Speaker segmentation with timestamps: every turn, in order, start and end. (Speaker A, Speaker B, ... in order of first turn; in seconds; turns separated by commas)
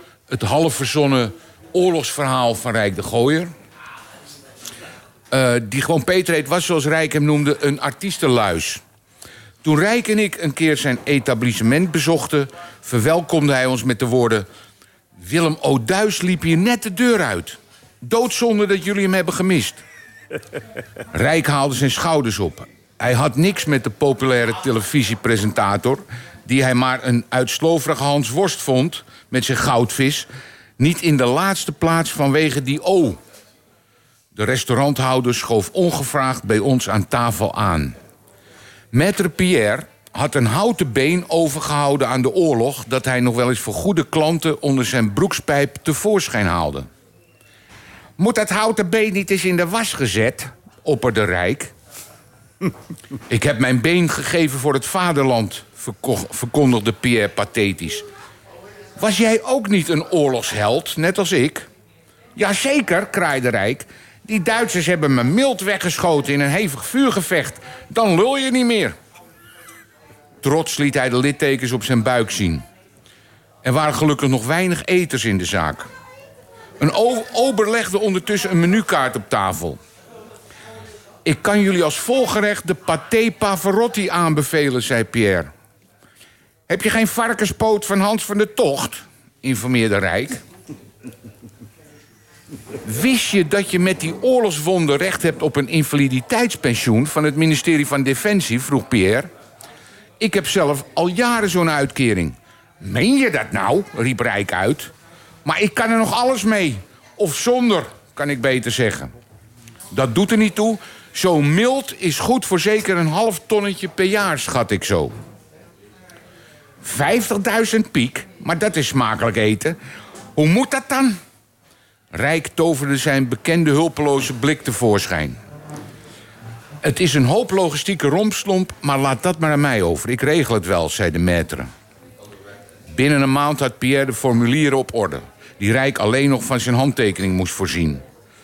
Speaker A: 0.3-3.5, Speaker A: 5.3-8.8, Speaker A: 9.6-14.4, Speaker A: 15.2-19.8, Speaker A: 21.1-30.3, Speaker A: 30.8-33.2, Speaker A: 34.3-37.9, Speaker A: 38.9-46.9, Speaker A: 48.2-51.7, Speaker A: 53.3-58.0, Speaker A: 59.0-61.6, Speaker A: 62.4-69.0, Speaker A: 70.4-72.6, Speaker A: 73.6-75.9, Speaker A: 76.8-79.8, Speaker A: 81.2-85.5, Speaker A: 86.7-90.4, Speaker A: 92.8-99.3, Speaker A: 100.2-104.9, Speaker A: 105.4-109.1, Speaker A: 109.9-115.1, Speaker A: 116.8-119.8, Speaker A: 120.3-121.2, Speaker A: 122.1-125.4, Speaker A: 126.8-131.7, Speaker A: 132.9-138.0